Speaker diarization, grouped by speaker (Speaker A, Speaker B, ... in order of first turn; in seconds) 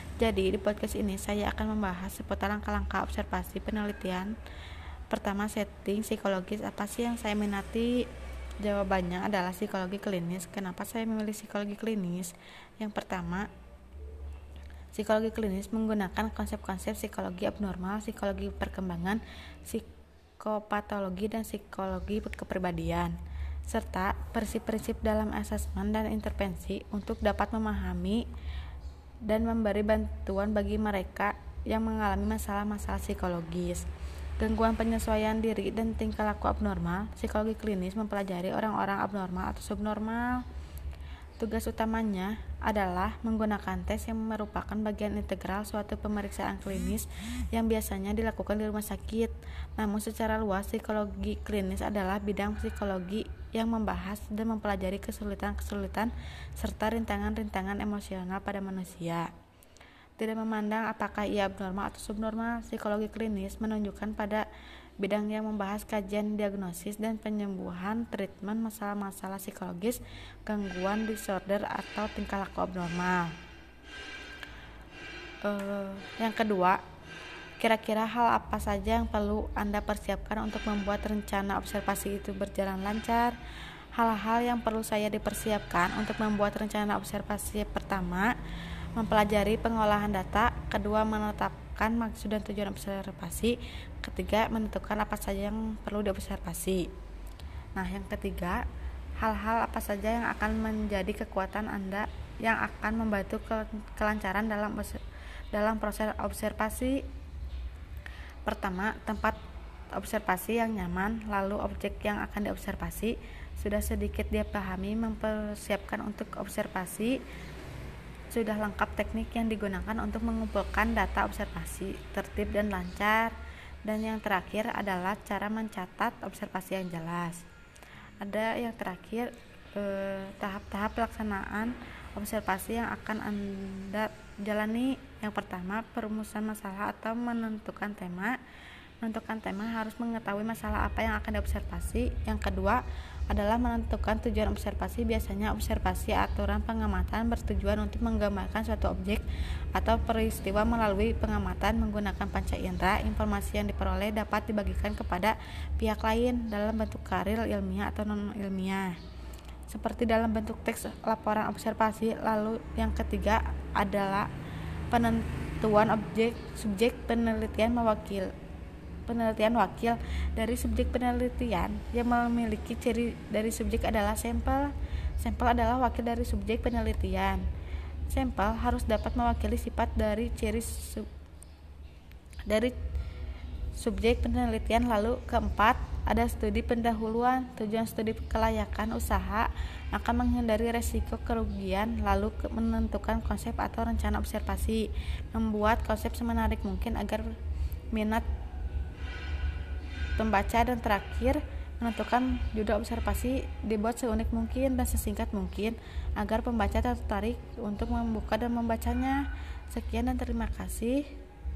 Speaker A: 0.2-4.3, 5.1-8.1, 8.6-13.5, 14.9-19.9, 20.4-23.1, 23.7-28.2, 29.2-33.9, 34.4-40.4, 41.4-59.3, 60.2-64.5, 65.0-73.3, 75.4-76.8, 77.6-83.3, 84.0-88.3, 89.0-96.9, 97.8-98.6, 99.2-105.0, 105.5-107.0, 108.5-109.3, 109.9-117.2, 118.3-127.4, 128.2-138.4, 139.0-159.0, 159.7-164.3, 164.9-168.3, 169.1-177.4, 178.1-181.1, 182.4-182.7, 183.8-197.3, 197.9-198.2, 200.2-211.1